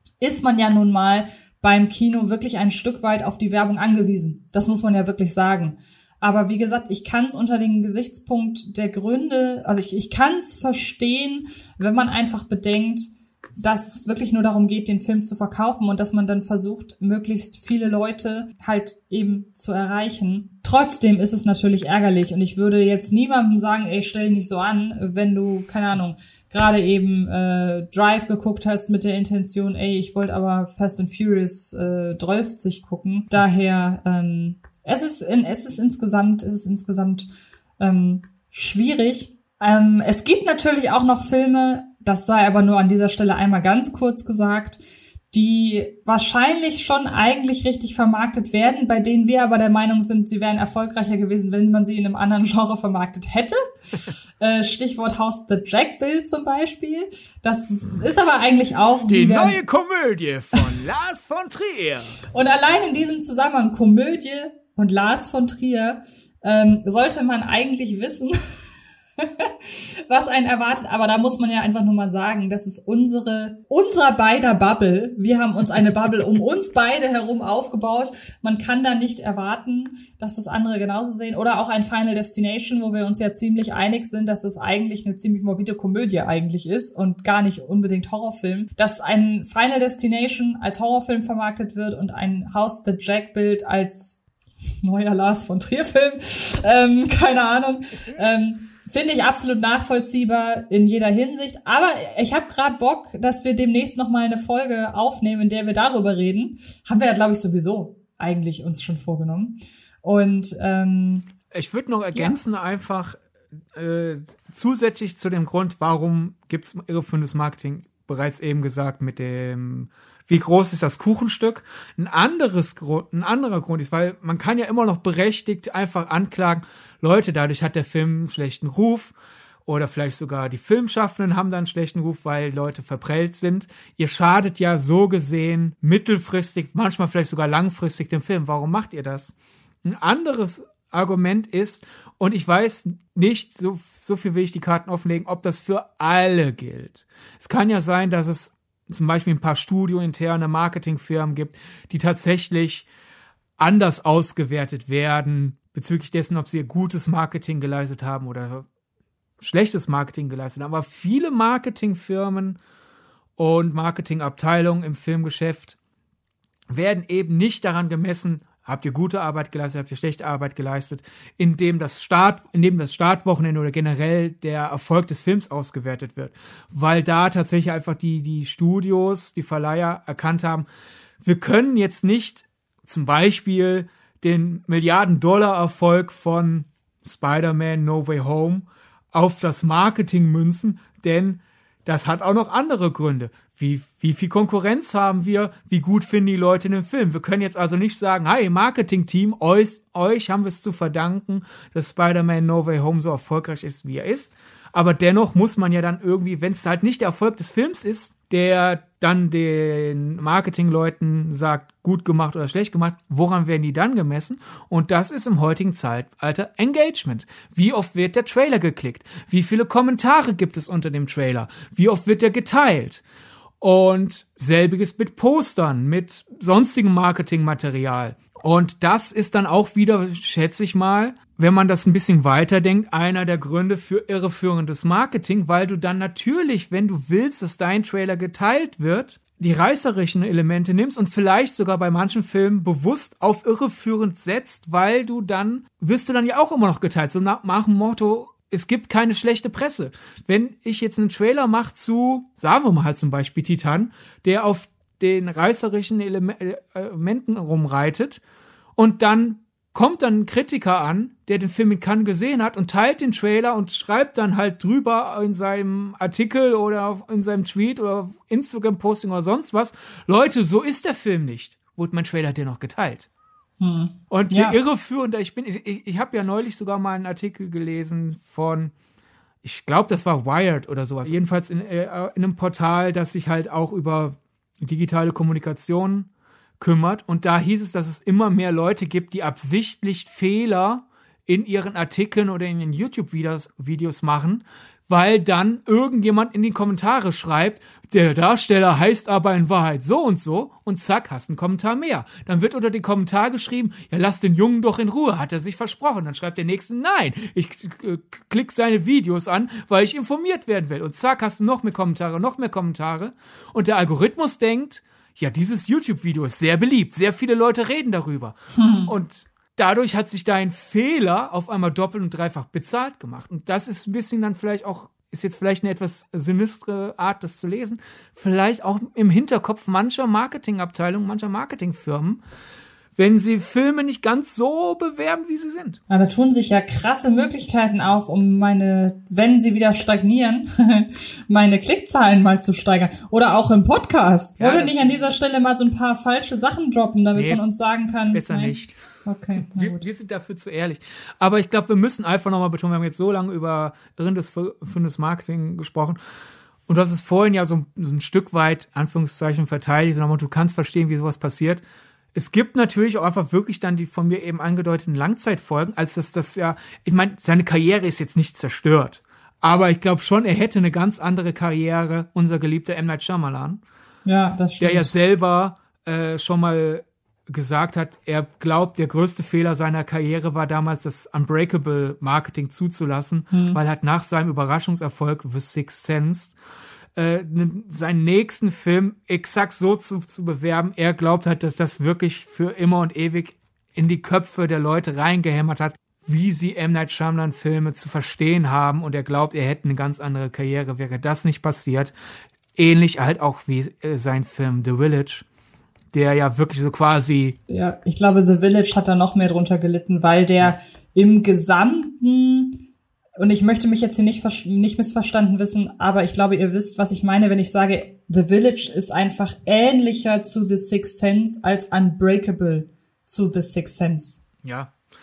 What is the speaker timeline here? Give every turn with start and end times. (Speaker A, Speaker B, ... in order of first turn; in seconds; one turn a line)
Speaker A: 0.2-59.6
Speaker B: 59.1-62.2
Speaker A: 62.3-68.3
Speaker A: 69.2-94.2
Speaker A: 94.8-111.3
Speaker B: 111.5-113.2
Speaker B: 113.7-129.1
Speaker B: 129.6-152.9
Speaker B: 153.6-158.7
Speaker B: 159.4-162.6
Speaker B: 163.4-165.8
Speaker B: 166.7-180.7
Speaker B: 181.2-223.0
Speaker B: 223.6-258.2
Speaker B: 258.8-273.1
Speaker A: 273.6-274.6
Speaker B: 274.1-278.7
Speaker B: 279.4-286.1
Speaker B: 286.6-318.3
Speaker A: 318.5-318.9
Speaker B: 318.9-332.2
Speaker B: 332.9-335.8
Speaker A: 335.9-349.9
Speaker B: 344.4-345.0
Speaker B: 347.1-347.4
Speaker B: 348.1-348.8
Speaker B: 349.4-356.0
Speaker B: 356.7-361.6
Speaker B: 362.1-373.6
Speaker A: 374.1-374.9
Speaker B: 374.6-386.4
Speaker A: 383.3-383.6
Speaker B: 386.9-401.9
Speaker B: 402.6-405.2
Speaker B: 405.9-407.4
Speaker A: 407.5-412.6
Speaker A: 413.2-424.2
Speaker B: 424.4-424.7